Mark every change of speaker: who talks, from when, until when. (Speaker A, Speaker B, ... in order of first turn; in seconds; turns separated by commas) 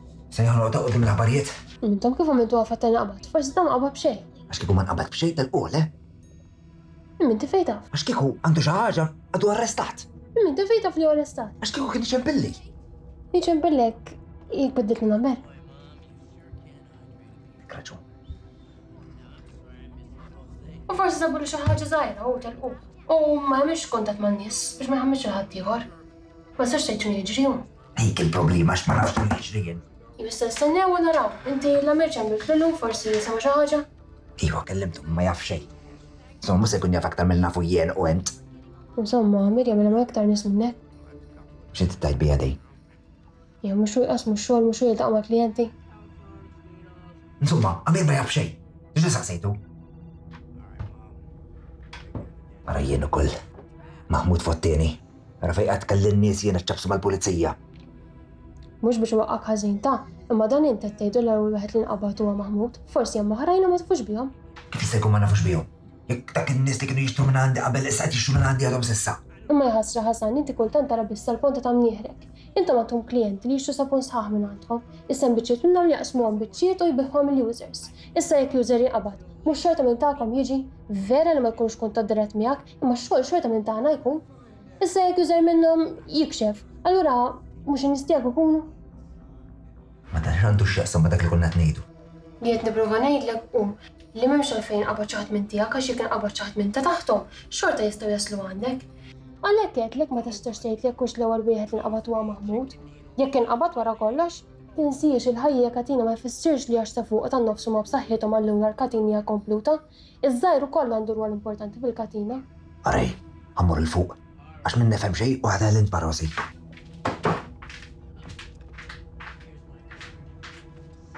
Speaker A: 0.3-1.5, Speaker B: 1.8-4.2, Speaker A: 4.5-5.9, Speaker B: 7.2-7.8, Speaker A: 7.9-10.0, Speaker B: 10.4-11.5, Speaker A: 11.6-12.6, Speaker B: 13.3-15.4, Speaker A: 17.7-18.0, Speaker B: 20.9-25.9, Speaker B: 26.6-27.6, Speaker A: 28.0-29.8, Speaker B: 30.2-33.9, Speaker A: 34.4-35.7, Speaker A: 36.4-38.3, Speaker B: 39.0-40.8, Speaker A: 41.7-42.6, Speaker B: 43.6-45.7, Speaker A: 47.4-49.6, Speaker A: 52.7-53.3, Speaker A: 54.1-57.5, Speaker B: 58.8-64.3, Speaker A: 64.7-69.2, Speaker B: 69.5-84.2, Speaker B: 84.8-88.7, Speaker A: 90.1-91.8, Speaker B: 92.4-98.8, Speaker B: 99.4-112.4, Speaker A: 112.8-116.3